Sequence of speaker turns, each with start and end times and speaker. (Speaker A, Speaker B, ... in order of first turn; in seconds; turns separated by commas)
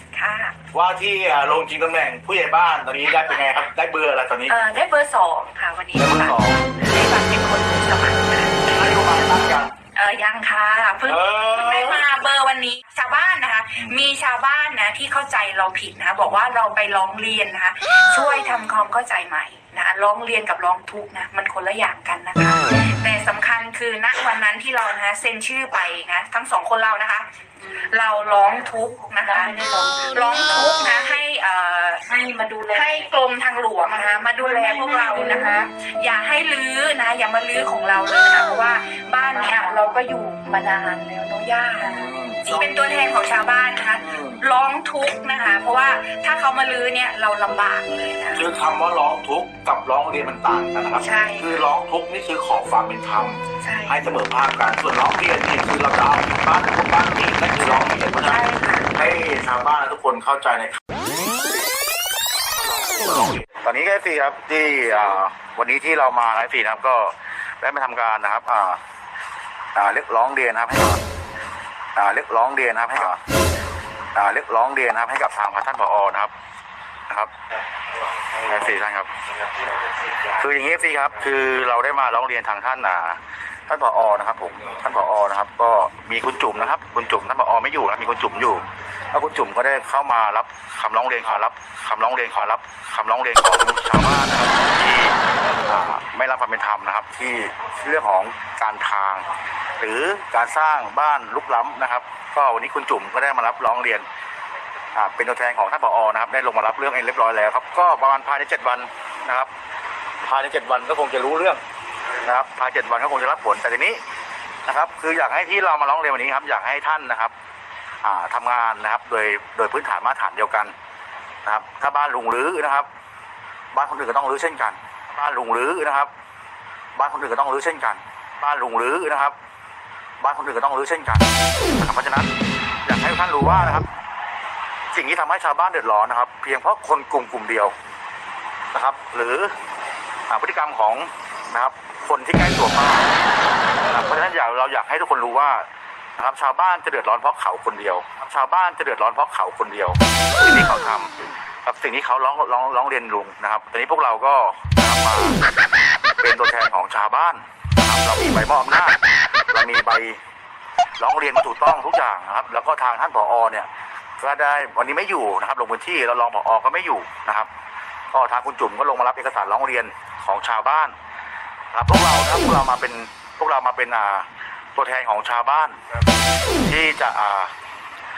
Speaker A: 0.1-0.6, Speaker B: 0.7-4.5, Speaker A: 4.5-8.9, Speaker B: 6.0-6.6, Speaker B: 8.7-9.7, Speaker A: 9.9-32.1, Speaker B: 11.1-12.1, Speaker C: 29.3-30.3, Speaker C: 32.1-33.0, Speaker A: 32.7-48.5, Speaker C: 34.1-35.5, Speaker C: 41.8-42.1, Speaker B: 41.9-42.7, Speaker B: 44.0-44.4, Speaker B: 48.4-60.8, Speaker A: 51.0-51.6, Speaker A: 53.6-54.0, Speaker A: 57.6-58.9, Speaker B: 62.6-68.8, Speaker B: 69.8-71.0, Speaker B: 72.0-73.2, Speaker B: 74.2-76.3, Speaker B: 78.4-79.1, Speaker B: 80.3-104.1, Speaker B: 104.9-109.5, Speaker B: 110.2-111.6, Speaker B: 112.2-114.0, Speaker B: 114.7-117.3, Speaker B: 118.0-120.7, Speaker B: 121.5-122.9, Speaker B: 123.7-126.1, Speaker B: 127.0-129.3, Speaker B: 130.2-132.3, Speaker B: 132.8-133.9, Speaker B: 134.9-137.7, Speaker B: 138.7-139.6, Speaker B: 140.3-143.2, Speaker B: 143.8-145.7, Speaker B: 146.2-151.1, Speaker B: 151.7-155.4, Speaker B: 156.2-159.0, Speaker B: 159.5-160.2, Speaker B: 161.0-163.7, Speaker B: 164.2-167.5, Speaker B: 168.1-170.9, Speaker B: 171.7-175.8, Speaker B: 176.6-177.5